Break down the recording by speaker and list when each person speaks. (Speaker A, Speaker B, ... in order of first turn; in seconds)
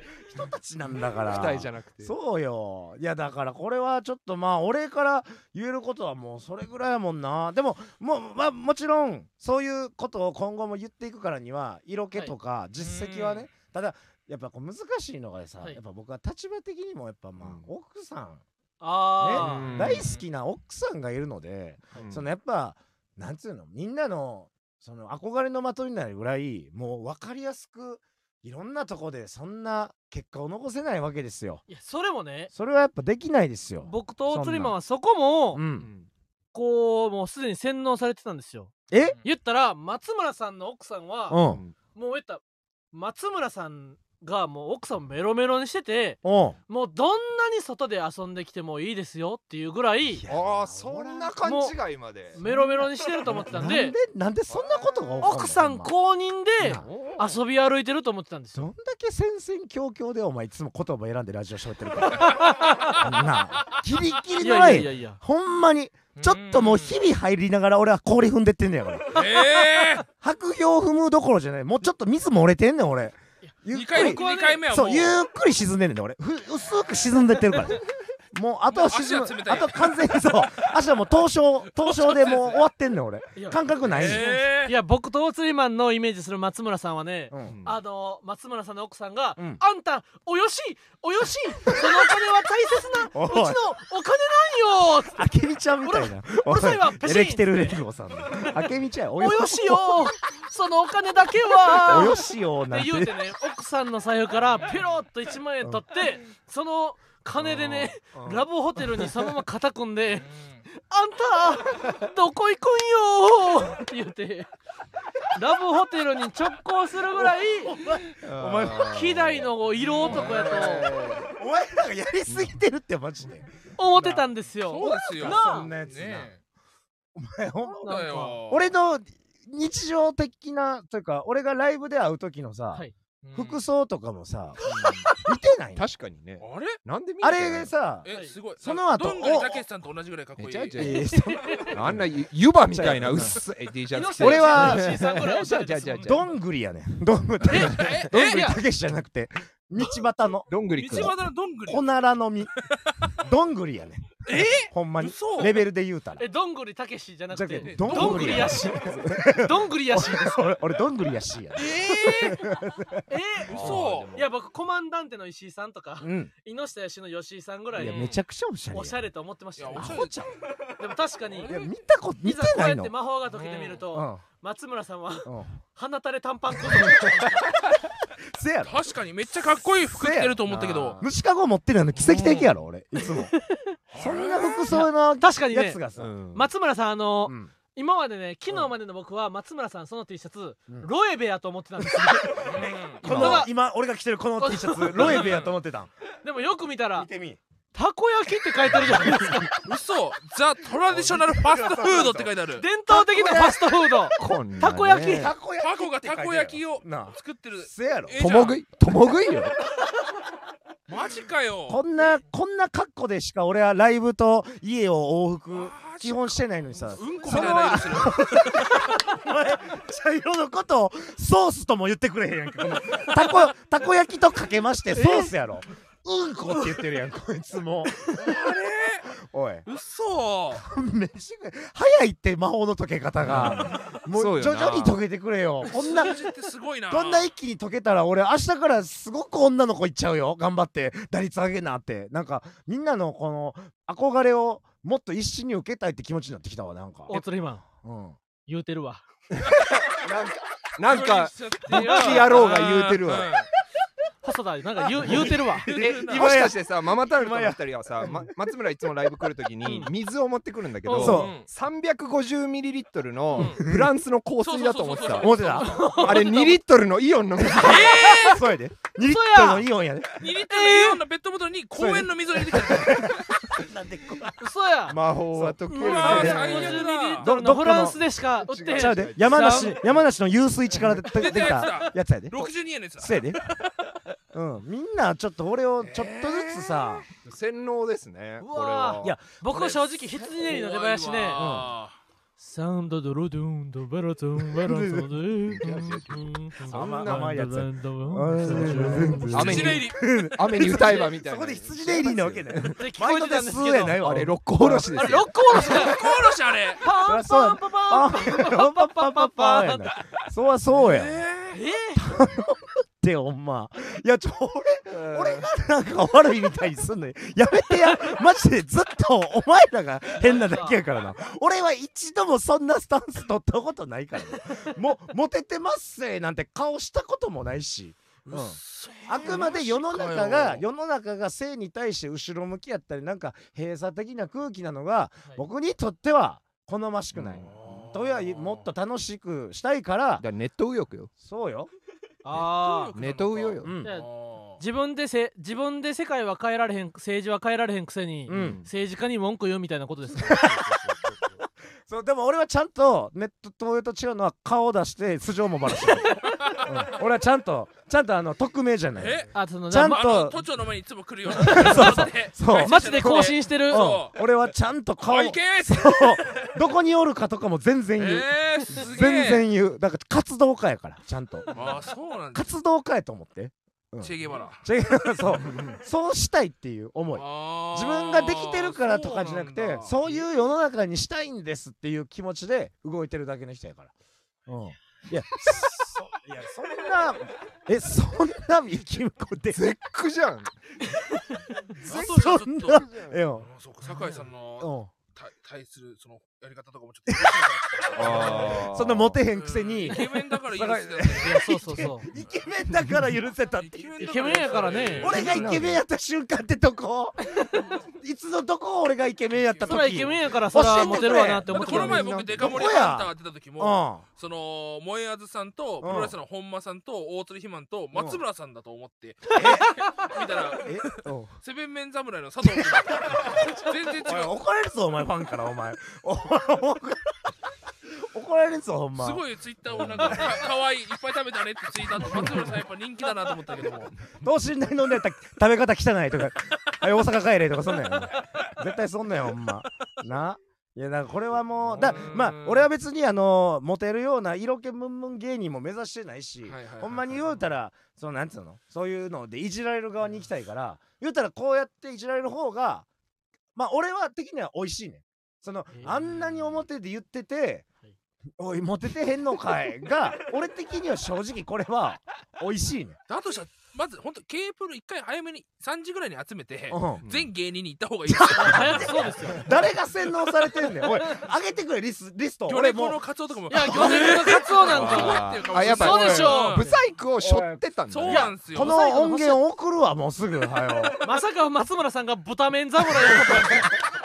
Speaker A: 0.3-18.4, 19.2-31.6, 32.5-34.8, 35.5-35.9, 38.9-39.2, 41.3-41.6, 46.2-46.6, 50.1-51.4, 52.4-55.9, 56.6-56.9, 58.5-69.4, 70.2-84.3, 87.3-87.6, 93.1-93.6, 95.2-100.1, 101.6-103.2, 117.1-119.0, 120.1-120.6, 121.2-124.3, 124.9-126.3, 127.2-132.8, 133.3-134.6, 135.2-135.9, 137.2-138.1, 138.6-139.6, 140.8-142.1, 142.7-143.4, 144.2-145.0, 146.0-151.2, 151.7-152.5, 153.2-156.2, 157.3-163.0, 166.0-166.3, 167.8-169.0, 169.7-170.3, 171.5-172.9, 173.9-174.2, 175.3-175.6, 176.7-177.3, 178.3-183.3, 184.0-186.1, 187.3-187.5, 191.8-195.9, 197.0-197.4, 198.8-199.4, 200.9-202.3, 202.9-203.7, 205.1-208.2, 211.7-228.0, 229.2-229.7, 230.5-236.2, 236.9-247.2, 247.8-248.2, 254.9-258.3, 260.9-261.4, 263.4-263.9, 265.2-266.2, 267.5-270.3, 271.8-274.5, 275.3-278.0, 278.7-283.4, 284.3-287.1, 289.0-289.7, 291.4-291.7, 294.5-295.2, 296.7-306.0, 307.0-311.2, 312.0-340.2, 341.2-341.7, 343.6-343.9, 348.3-348.6, 350.2-350.9, 351.9-360.4, 361.3-371.5, 372.3-383.9, 384.5-389.6, 391.8-393.5, 394.6-394.9, 397.1-414.1, 415.8-416.2, 417.9-418.2, 419.4-419.8, 420.6-421.4, 422.4-423.5, 424.1-427.1, 428.1-429.2, 429.8-430.4, 432.0-432.6, 434.2-452.9, 453.6-457.7, 458.4-463.0, 466.7-467.0, 468.1-473.0, 473.6-474.1, 477.2-477.6, 478.4-481.0
Speaker B: 1.1-2.1, 17.4-17.7, 19.3-20.1, 22.0-22.2, 35.8-36.1, 41.5-41.8, 50.3-52.4, 54.5-55.2, 56.7-57.4, 87.5-87.8, 107.4-108.4, 118.2-119.5, 120.0-121.3, 122.3-122.5, 134.7-135.1, 135.8-137.7, 140.4-141.1, 141.6-146.3, 150.5-151.2, 158.3-159.2, 163.5-164.3, 180.5-181.0, 186.0-186.5, 193.1-193.3, 204.2-205.3, 208.2-209.6, 233.2-235.0, 249.4-253.3, 255.7-265.4, 266.0-268.1, 274.9-276.8, 278.4-280.0, 287.2-289.1, 295.5-297.5, 298.4-302.8, 304.0-305.3, 314.9-315.5, 337.1-337.7, 340.2-341.1, 342.9-343.7, 348.3-348.7, 350.9-351.2, 375.4-375.8, 389.5-390.5, 392.8-393.2, 397.9-399.2, 405.0-405.8, 429.8-430.2, 467.0-467.3, 474.6-478.3
Speaker C: 12.8-13.5, 19.7-20.2, 38.9-39.2, 66.2-67.0, 69.1-70.1, 73.7-75.2, 78.7-80.7, 81.8-82.6, 83.9-84.8, 104.5-105.0, 110.1-110.7, 119.9-120.6, 124.7-126.4, 127.8-128.7, 133.2-133.6, 136.4-136.8, 138.1-140.8, 147.5-148.6, 150.7-151.9, 152.6-153.2, 154.2-155.7, 157.6-158.6, 161.6-162.4, 163.5-164.1, 167.8-168.2, 169.6-170.2, 171.3-171.7, 173.3-173.8, 178.6-181.0, 182.1-182.5, 183.9-184.7, 192.4-193.4, 194.9-195.5, 199.6-202.7, 205.6-208.6, 210.9-211.8, 215.5-218.9, 228.1-229.1, 229.7-230.6, 235.6-237.3, 250.8-253.5, 255.7-256.4, 260.9-261.5, 263.3-263.6, 264.4-266.3, 267.5-268.5, 270.2-273.3, 275.8-277.3, 281.1-284.0, 285.8-287.0, 289.5-292.0, 299.3-300.1, 300.6-301.1, 305.5-306.8, 310.7-311.6, 328.3-330.6, 337.4-338.7, 342.3-344.6, 356.4-356.9, 359.0-364.2, 365.0-366.6, 368.0-369.5, 371.5-372.5, 374.0-374.6, 377.1-380.3, 391.8-392.9, 393.4-398.7, 399.3-401.6, 403.5-405.6, 409.3-424.4, 429.0-433.9, 437.9-438.5, 441.7-442.7, 446.4-447.3, 463.1-469.1, 472.5-476.7, 477.9-478.8
Speaker D: 18.8-19.7, 31.7-32.5, 33.8-35.6, 36.5-38.7, 39.2-41.4, 42.0-50.2, 51.4-51.8, 52.3-54.0, 55.2-58.7, 62.1-63.0, 64.4-65.2, 73.5-74.6, 83.4-95.3, 95.8-97.8, 99.2-114.5, 115.3-117.8, 118.7-120.9, 123.8-125.7, 127.8-128.4, 134.7-135.3, 138.1-138.3, 140.8-141.8, 143.9-146.3, 147.5-148.6, 156.2-160.4, 161.6-162.4, 163.1-168.1, 168.7-170.0, 170.8-171.6, 172.2-177.4, 183.0-183.8, 184.7-185.8, 186.3-193.5, 194.4-195.4, 196.2-197.1, 197.7-199.6, 202.6-205.3, 224.9-225.3, 247.1-247.6, 248.5-249.0, 251.7-252.6, 254.2-255.8, 259.6-259.9, 260.9-261.2, 265.6-266.6, 269.0-269.7, 270.4-271.0, 274.4-275.0, 275.7-279.8, 288.4-291.5, 292.4-299.7, 302.8-304.0, 304.9-306.1, 306.8-309.9, 311.5-312.1, 320.1-320.8, 342.2-342.9, 343.8-344.1, 344.6-350.6, 355.9-356.3, 359.3-360.1, 361.4-364.0, 401.2-402.1, 404.0-405.2, 407.3-407.7, 409.7-412.1, 419.3-419.9, 455.7-456.1, 468.4-469.5, 473.5-476.8, 478.1-479.4, 481.0-483.7